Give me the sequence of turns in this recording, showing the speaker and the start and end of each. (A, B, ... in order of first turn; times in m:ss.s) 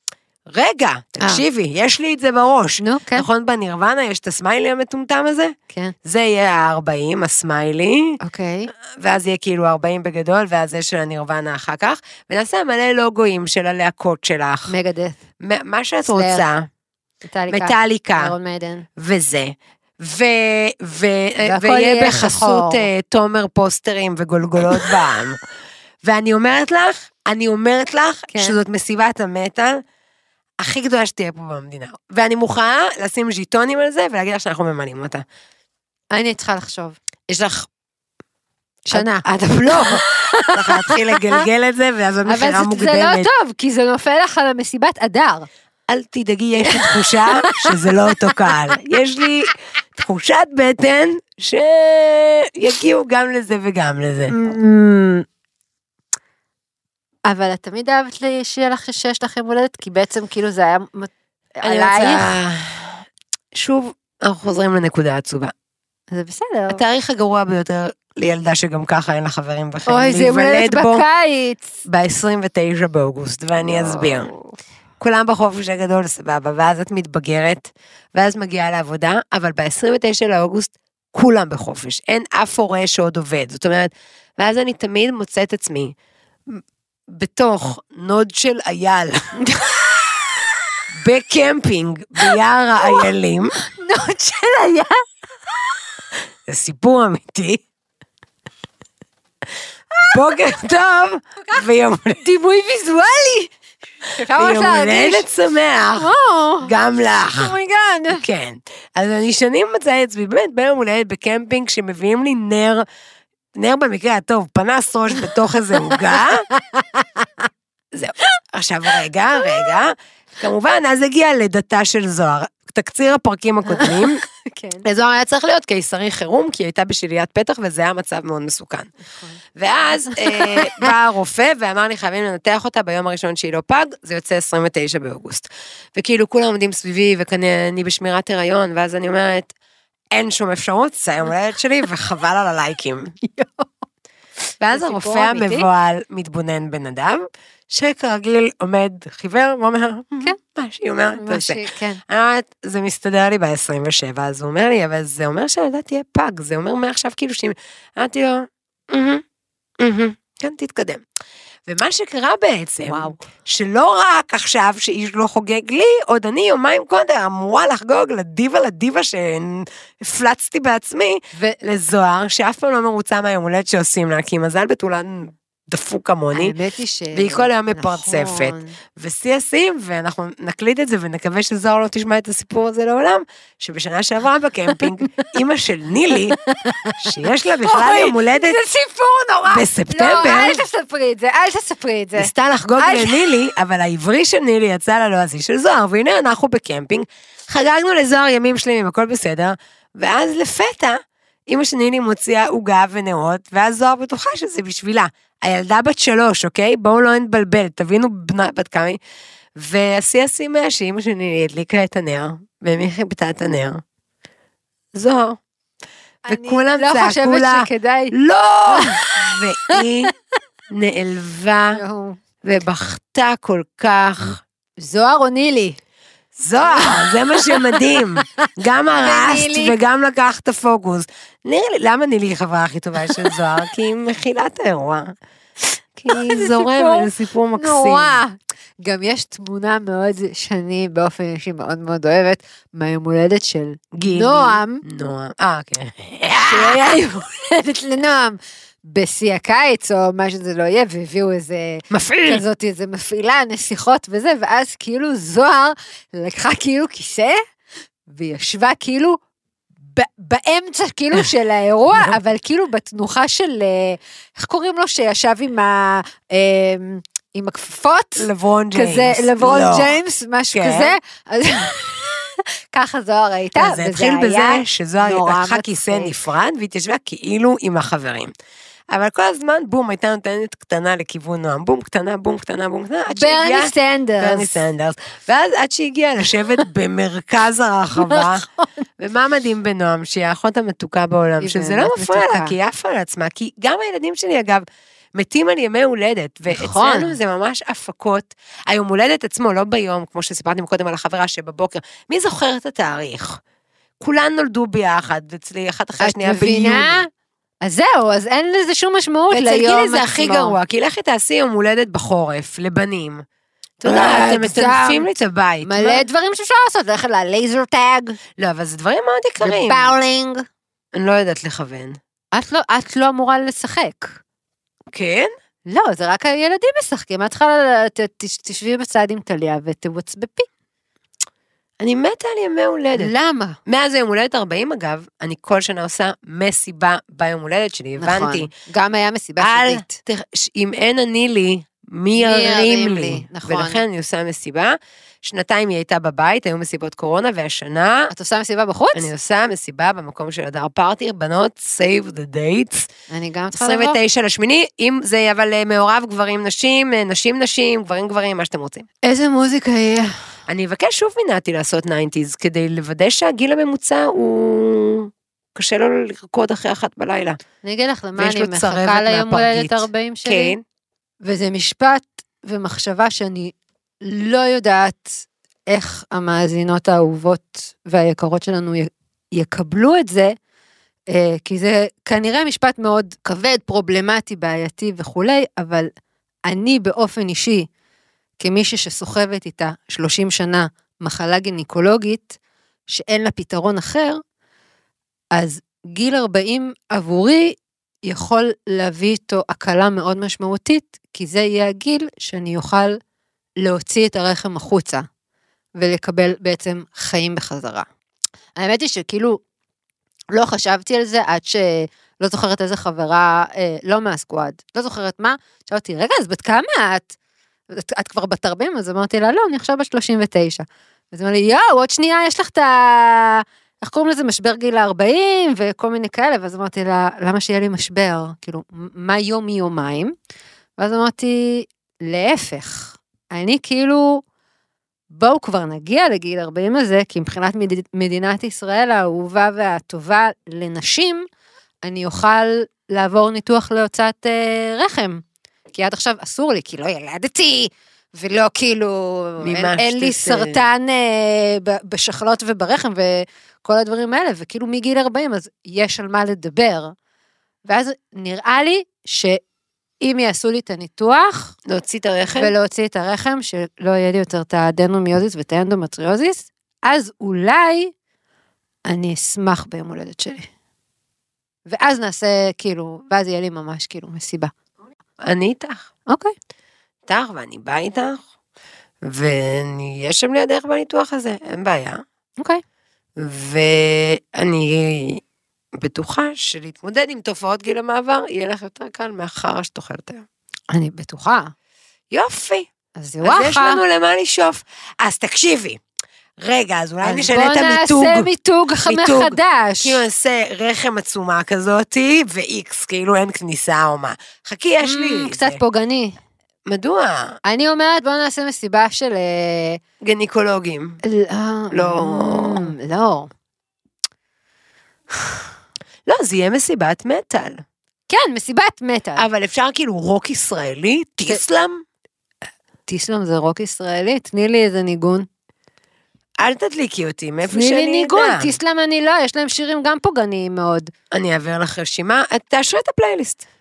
0:00.5-0:08.2 A
0:01.2-0:01.4 B
0:02.8-0:03.3 B
0:08.2-0:08.7 B
0:08.8-0:14.7 A
0:14.7-0:15.2 B
0:15.4-0:16.7 A
0:16.0-0:16.4 B
0:17.3-0:18.8 B
0:17.5-0:18.3 A
0:19.0-0:25.4 A
0:21.4-0:22.9 B
0:26.0-0:29.8 A
0:28.3-0:28.6 B
0:30.6-0:35.2 A
0:36.1-0:37.0 B
0:37.3-0:37.7 A
0:38.8-0:41.4 B
0:38.9-0:43.3 A
0:42.2-0:45.5 B
0:45.9-0:54.3 A
0:46.6-0:48.5 B
0:54.3-0:55.2 B
0:57.3-1:02.4 B
1:01.6-1:05.5 A
1:06.1-1:06.8 B
1:06.7-1:11.0 A
1:09.9-1:11.8 B
1:11.8-1:14.3 A
1:13.6-1:14.6 B
1:15.0-1:25.9 A
1:26.5-1:29.4 A
1:29.4-1:30.1 B
1:30.9-1:33.6 A
1:32.2-1:33.1 B
1:33.6-1:35.0 B
1:36.5-1:37.6 A
1:39.9-1:40.3 B
1:40.1-1:42.2 A
1:42.2-1:43.5 B
1:44.0-1:45.3 B
1:44.3-1:46.1 A
1:46.0-1:46.7 B
1:46.6-1:47.5 A
1:47.2-1:48.2 B
1:48.1-1:52.8 A
1:53.6-1:56.4 A
1:55.8-1:57.2 B
1:57.9-2:04.2 A
2:03.6-2:04.8 B
2:04.8-2:08.9 A
2:09.1-2:09.4 B
2:09.6-2:19.5 A
2:10.0-2:10.9 B
2:20.1-2:23.1 A
2:23.2-2:23.7 B
2:24.6-2:39.2 A
2:24.7-2:25.7 B
2:31.1-2:32.0 B
2:39.8-2:41.0 A
2:41.7-2:56.5 A
2:42.9-2:43.2 B
2:51.3-2:51.6 B
2:56.3-2:58.8 B
2:57.1-3:06.4 A
3:04.8-3:05.2 B
3:06.3-3:07.1 B
3:07.0-3:08.6 A
3:07.6-3:13.3 B
3:09.5-3:10.6 A
3:12.2-3:29.0 A
3:29.6-3:33.8 A
3:34.9-3:35.4 A
3:36.2-3:38.1 B
3:36.3-3:40.1 A
3:38.7-3:39.8 B
3:40.7-3:41.8 A
3:41.7-3:42.2 B
3:42.4-3:44.4 A
3:44.8-3:45.8 B
3:46.4-3:55.1 A
3:46.6-3:49.8 B
3:56.0-3:58.2 A
3:56.1-4:04.8 B
4:03.9-4:07.0 A
4:06.4-4:17.4 B
4:11.9-4:12.4 A
4:18.1-4:19.2 B
4:19.9-4:36.1 B
4:28.2-4:29.9 A
4:30.5-4:31.0 A
4:33.6-4:38.3 A
4:38.9-4:48.4 A
4:43.1-4:44.6 B
4:48.0-4:48.7 B
4:49.0-5:03.4 A
4:51.4-4:52.5 B
4:56.5-4:57.2 B
5:04.0-5:07.0 A
5:06.0-5:07.1 B
5:07.6-5:10.6 B
5:09.3-5:13.2 A
5:13.8-5:16.0 A
5:13.8-5:15.1 B
5:15.6-5:18.2 B
5:18.4-5:19.9 A
5:19.4-5:20.4 B
5:20.9-5:22.0 A
5:22.3-5:24.2 B
5:24.9-5:25.3 A
5:25.7-5:30.5 B
5:31.8-5:33.1 A
5:33.0-5:33.6 B
5:33.6-5:38.5 A
5:38.0-5:40.0 B
5:39.4-5:48.1 A
5:42.1-5:43.8 B
5:48.1-5:49.1 B
5:48.9-5:52.9 A
5:53.1-5:54.0 B
5:53.5-5:58.9 A
5:59.0-6:00.2 B
6:00.5-6:07.4 A
6:07.6-6:10.6 B
6:08.2-6:10.6 A
6:11.2-6:20.3 B
6:21.1-6:25.9 B
6:26.5-6:27.7 B
6:28.4-6:32.4 B
6:32.9-6:34.2 B
6:35.3-6:43.0 B
6:43.6-6:45.0 B
6:45.8-6:47.8 B
6:48.6-6:49.4 B
6:50.3-6:57.1 B
6:57.7-7:10.1 B
7:10.8-7:14.2 B
7:15.1-7:21.3 B
7:21.8-7:25.2 B
7:25.7-7:36.9 B
7:29.4-7:30.6 A
7:37.6-7:39.4 B
7:40.0-7:41.5 B
7:41.6-7:42.5 A
7:42.3-7:47.9 B
7:48.9-7:50.5 B
7:51.7-7:54.5 B
7:55.2-7:55.9 A
7:56.1-7:56.3 B
7:57.1-7:58.2 A
7:59.0-8:02.0 A
8:03.2-8:05.2 A
8:05.7-8:10.2 A
8:10.7-8:11.5 B
8:12.1-8:12.7 A
8:13.0-8:13.8 B
8:13.2-8:15.8 A
8:16.4-8:18.3 A
8:17.0-8:20.0 B
8:18.8-8:25.6 A
8:24.8-8:26.2 B
8:26.6-8:27.4 A
8:27.4-8:29.8 B
8:30.0-8:31.0 A
8:31.0-8:33.3 B
8:31.7-8:32.7 A
8:36.1-8:37.6 A
8:38.1-8:39.2 B
8:39.2-8:41.8 A
8:42.9-8:45.3 B
8:46.4-8:48.5 A
8:47.5-8:50.9 B
8:51.1-8:53.4 A